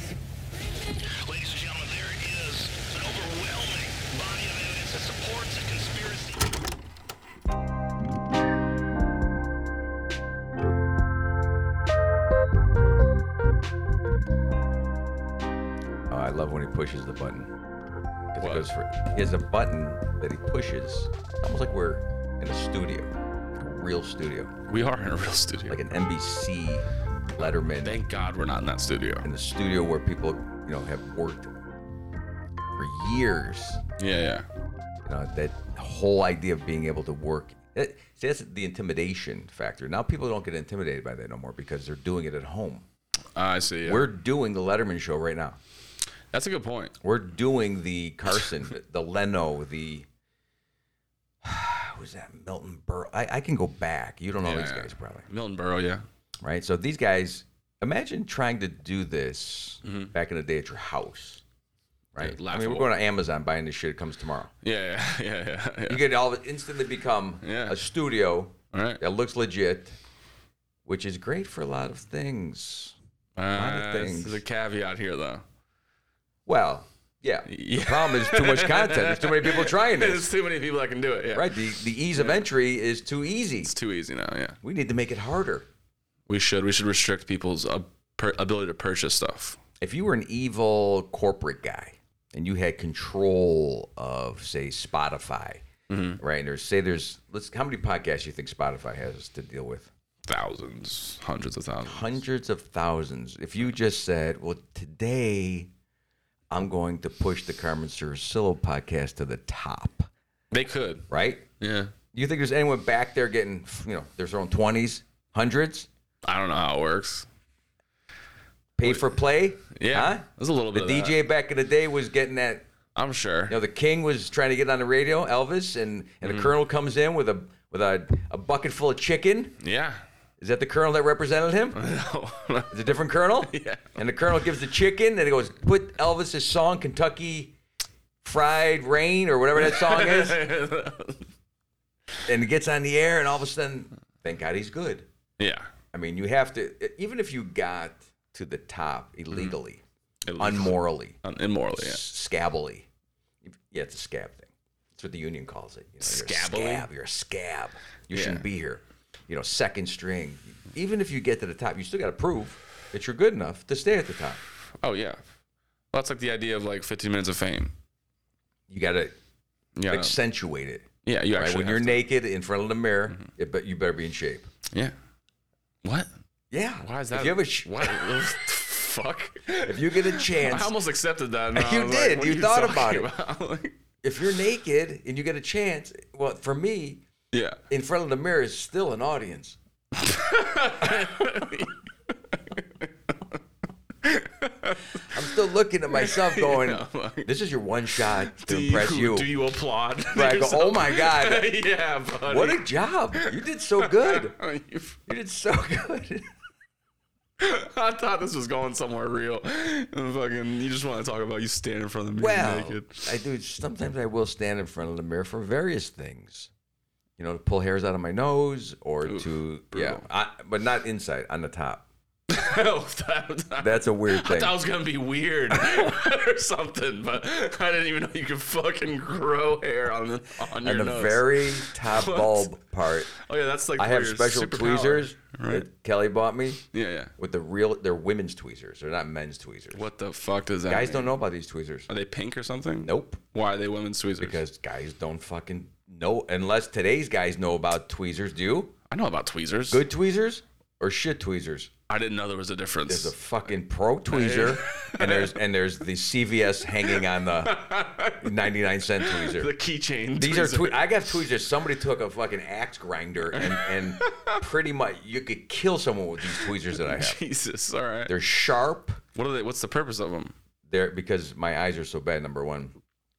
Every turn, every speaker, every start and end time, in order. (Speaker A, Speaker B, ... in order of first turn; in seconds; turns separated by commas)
Speaker A: 1.1-6.5, Speaker B: 16.1-17.5, Speaker B: 18.3-24.5, Speaker C: 18.4-18.7, Speaker C: 24.7-25.8, Speaker B: 25.7-28.0, Speaker C: 27.4-29.3, Speaker B: 29.2-31.5, Speaker B: 32.8-33.8, Speaker C: 34.0-34.5, Speaker B: 35.0-42.9, Speaker C: 43.4-44.1, Speaker B: 43.8-45.6, Speaker C: 46.3-46.9, Speaker B: 47.0-50.1, Speaker B: 51.4-55.3, Speaker C: 54.4-56.0, Speaker B: 56.4-61.4, Speaker C: 59.8-60.1, Speaker B: 62.1-64.5, Speaker C: 62.2-62.9, Speaker C: 64.6-66.0, Speaker B: 65.9-70.0, Speaker C: 67.4-67.8, Speaker C: 68.7-69.0, Speaker B: 70.9-73.0, Speaker C: 73.4-75.4, Speaker B: 73.5-74.4, Speaker B: 76.5-80.3, Speaker C: 77.5-82.4, Speaker B: 81.3-83.7, Speaker C: 83.7-84.6, Speaker B: 84.6-85.7, Speaker C: 86.3-89.6, Speaker B: 89.8-95.7, Speaker C: 95.9-96.2, Speaker B: 96.2-99.9, Speaker C: 100.3-102.2, Speaker B: 101.8-105.7, Speaker B: 106.5-110.1, Speaker C: 110.5-111.1, Speaker B: 111.1-111.5, Speaker C: 111.6-111.9, Speaker B: 112.1-115.9, Speaker C: 116.2-117.3, Speaker B: 118.8-122.7, Speaker C: 118.8-119.2, Speaker C: 119.7-121.2, Speaker C: 123.0-123.6, Speaker B: 123.5-129.6, Speaker C: 126.2-126.5, Speaker C: 129.6-130.0, Speaker B: 130.4-131.8, Speaker C: 131.8-134.0, Speaker B: 132.7-137.6, Speaker B: 138.2-140.4, Speaker C: 139.6-141.3, Speaker B: 142.2-145.1, Speaker C: 145.4-145.7, Speaker B: 145.9-149.8, Speaker C: 150.3-152.0, Speaker B: 150.4-151.2, Speaker B: 151.8-152.9, Speaker B: 153.4-164.4, Speaker C: 156.0-156.9, Speaker C: 158.1-158.5, Speaker C: 164.8-165.2, Speaker C: 165.9-167.7, Speaker B: 168.7-169.2, Speaker C: 169.8-170.2, Speaker B: 169.9-174.5, Speaker C: 171.0-172.0, Speaker C: 175.8-176.1, Speaker B: 176.5-178.3, Speaker C: 176.8-183.8, Speaker B: 179.6-180.7, Speaker B: 181.5-183.1, Speaker B: 184.0-187.0, Speaker C: 187.3-187.6, Speaker B: 187.7-189.6, Speaker C: 190.0-191.8, Speaker C: 192.3-193.2, Speaker C: 194.0-195.4, Speaker B: 195.1-199.3, Speaker C: 195.9-197.3, Speaker C: 198.0-205.0, Speaker B: 200.1-201.6, Speaker B: 202.3-204.3, Speaker B: 205.1-206.3, Speaker C: 207.4-213.1, Speaker B: 212.2-216.5, Speaker B: 217.2-221.8, Speaker C: 219.0-220.0, Speaker C: 222.3-232.5, Speaker B: 223.6-224.6, Speaker B: 225.5-225.8, Speaker B: 230.6-233.1, Speaker C: 233.1-235.7, Speaker B: 233.8-236.6, Speaker C: 236.7-237.1, Speaker B: 237.2-239.8, Speaker C: 239.7-241.2, Speaker B: 240.7-241.9, Speaker C: 241.9-244.4, Speaker B: 242.8-243.2, Speaker B: 244.2-248.8, Speaker C: 248.9-249.8, Speaker B: 249.7-251.7, Speaker C: 251.9-253.1, Speaker B: 252.9-257.6, Speaker C: 254.1-255.4, Speaker C: 256.8-261.2, Speaker B: 258.2-259.5, Speaker B: 260.2-267.2, Speaker C: 263.3-264.5, Speaker C: 266.3-268.2, Speaker B: 268.1-269.0, Speaker C: 269.1-270.3, Speaker B: 270.7-272.8